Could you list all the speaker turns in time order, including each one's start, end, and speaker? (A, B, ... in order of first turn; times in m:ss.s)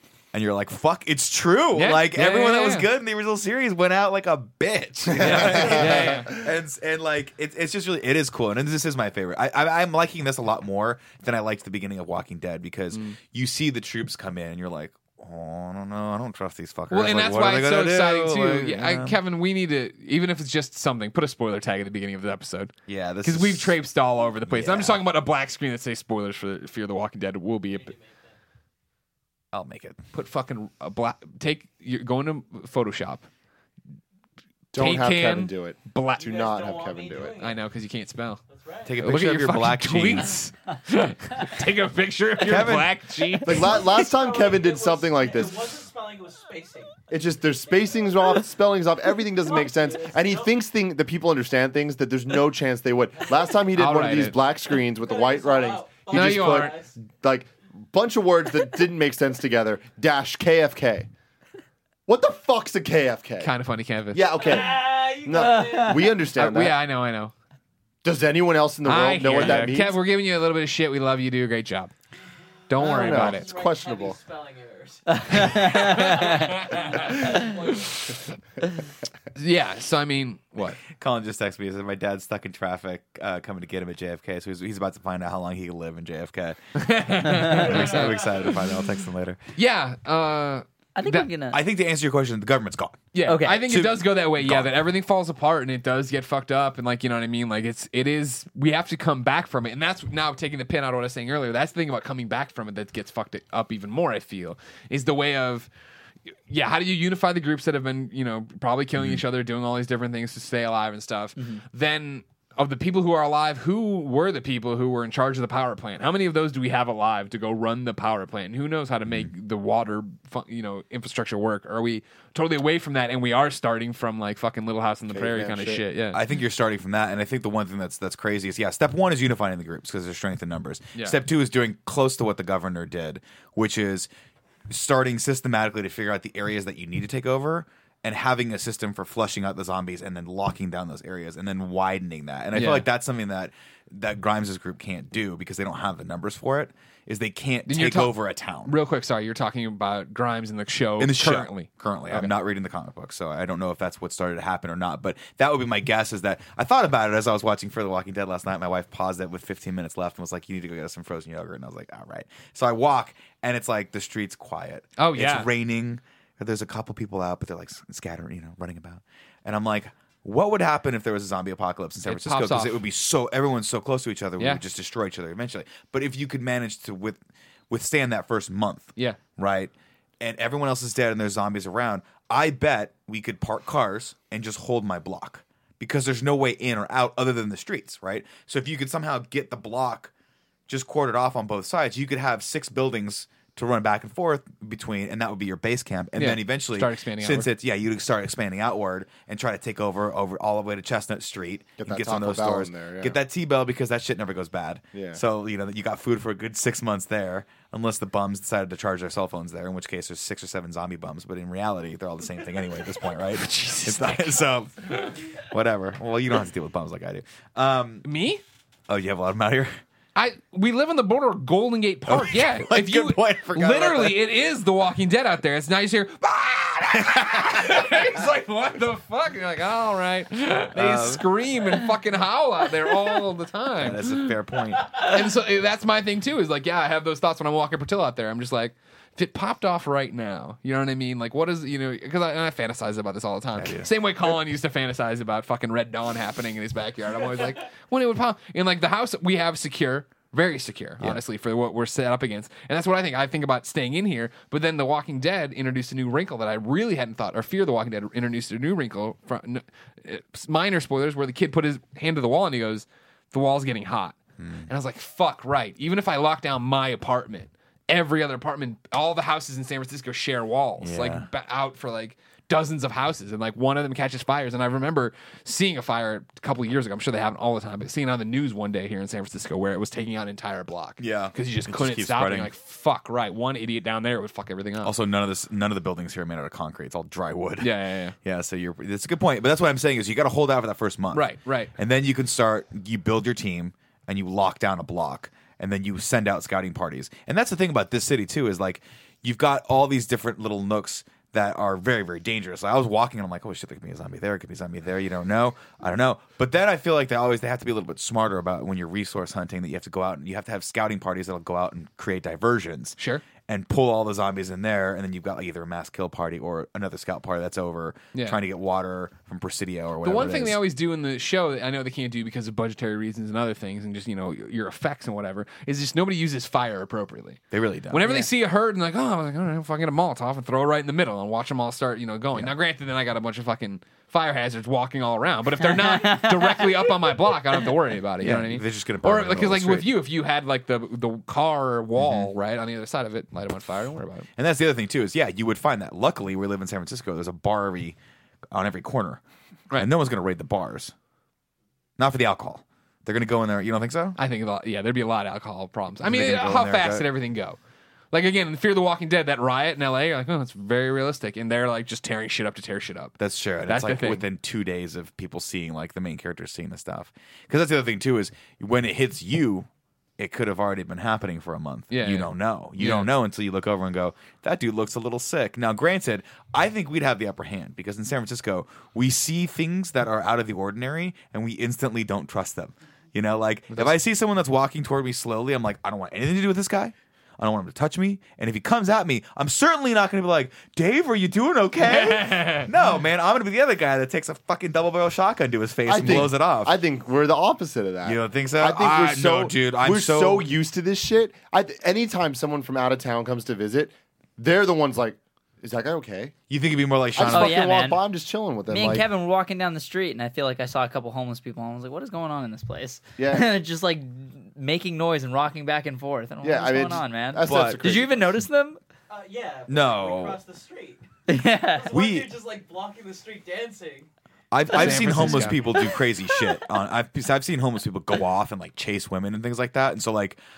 0:00.3-0:19.2 A
0:01.7-0:02.9 B
0:05.1-0:06.4 B
0:05.2-0:06.2 C
0:16.9-0:22.7 B
0:22.9-0:23.8 A
0:23.2-0:27.9 B
0:24.5-0:25.0 A
0:27.7-0:28.3 D
0:29.5-0:30.0 A
0:30.1-0:33.3 B
0:34.7-0:37.4 C
0:34.7-0:36.3 B
0:36.2-0:37.6 D
0:37.4-0:38.4 B
0:38.5-0:39.0 D
0:38.8-0:40.4 A
0:39.0-0:44.0 B
0:42.4-0:43.1 A
0:43.4-0:45.8 C
0:43.5-0:47.0 D
0:47.1-1:01.1 C
0:47.6-0:48.4 D
0:49.4-0:50.6 D
0:53.7-0:54.4 B
0:54.8-0:57.0 D
0:56.1-0:56.8 B
1:02.1-1:03.5 C
1:03.4-1:04.4 B
1:04.1-1:06.8 C
1:04.3-1:06.3 D
1:05.3-1:06.1 E
1:06.4-1:07.3 B
1:08.0-1:10.0 C
1:08.8-1:11.9 B
1:12.7-1:13.5 B
1:12.8-1:18.0 D
1:12.8-1:14.2 C
1:15.1-1:16.6 E
1:16.6-1:18.2 B
1:19.3-1:20.8 B
1:20.8-1:29.4 A
1:26.8-1:28.6 B
1:27.7-1:28.1 D
1:29.5-1:31.3 B
1:30.9-1:31.6 E
1:31.5-1:33.1 A
1:33.1-1:45.7 B
1:33.2-1:33.6 E
1:33.6-1:34.7 A
1:46.5-2:06.2 B
1:49.0-1:49.2 A
2:05.1-2:05.8 C
2:06.1-2:14.1 A
2:14.7-2:28.7 A
2:22.5-2:22.8 B
2:27.7-2:32.3 B
2:31.0-3:10.1 A
2:45.0-2:45.5 B
2:52.0-2:52.8 B
3:10.7-3:38.0 A
3:16.2-3:17.5 B
3:21.8-3:23.2 C
3:24.9-3:25.2 C
3:33.5-3:34.3 B
3:38.0-3:38.4 B
3:38.9-3:39.7 A
3:40.1-4:44.9 B
3:42.1-3:44.2 A
3:47.2-3:47.6 A
3:50.7-3:51.2 A
3:53.8-3:55.0 A
4:03.5-4:03.9 A
4:24.4-4:24.7 A
4:30.8-4:31.3 A
4:41.0-4:42.5 A
4:44.8-5:20.6 A
4:47.6-4:48.1 B
4:51.1-4:51.7 B
5:13.0-5:13.2 B
5:18.1-5:18.4 B
5:20.0-5:44.3 B
5:27.5-5:28.1 A
5:35.6-5:36.9 E
5:38.2-5:39.9 A
5:42.0-5:42.3 A
5:44.4-5:48.0 A
5:48.5-5:49.2 A
5:49.7-5:50.9 A
5:52.0-5:54.2 A
5:54.2-5:57.6 B
5:56.0-5:57.0 A
5:58.1-6:04.2 B
6:03.2-6:36.8 A
6:11.9-6:13.1 B
6:31.8-6:32.7 B
6:35.9-6:46.3 C
6:38.0-6:40.5 A
6:46.5-6:47.6 A
6:47.1-6:49.1 C
6:47.3-6:48.0 E
6:48.7-6:58.8 E
6:53.2-6:53.5 C
6:56.4-6:58.4 C
6:57.4-6:57.8 A
6:59.1-7:01.0 D
6:59.7-7:00.4 A
7:01.3-7:01.9 E
7:01.6-7:04.1 D
7:01.9-7:02.3 A
7:04.5-7:10.4 A
7:04.7-7:05.6 B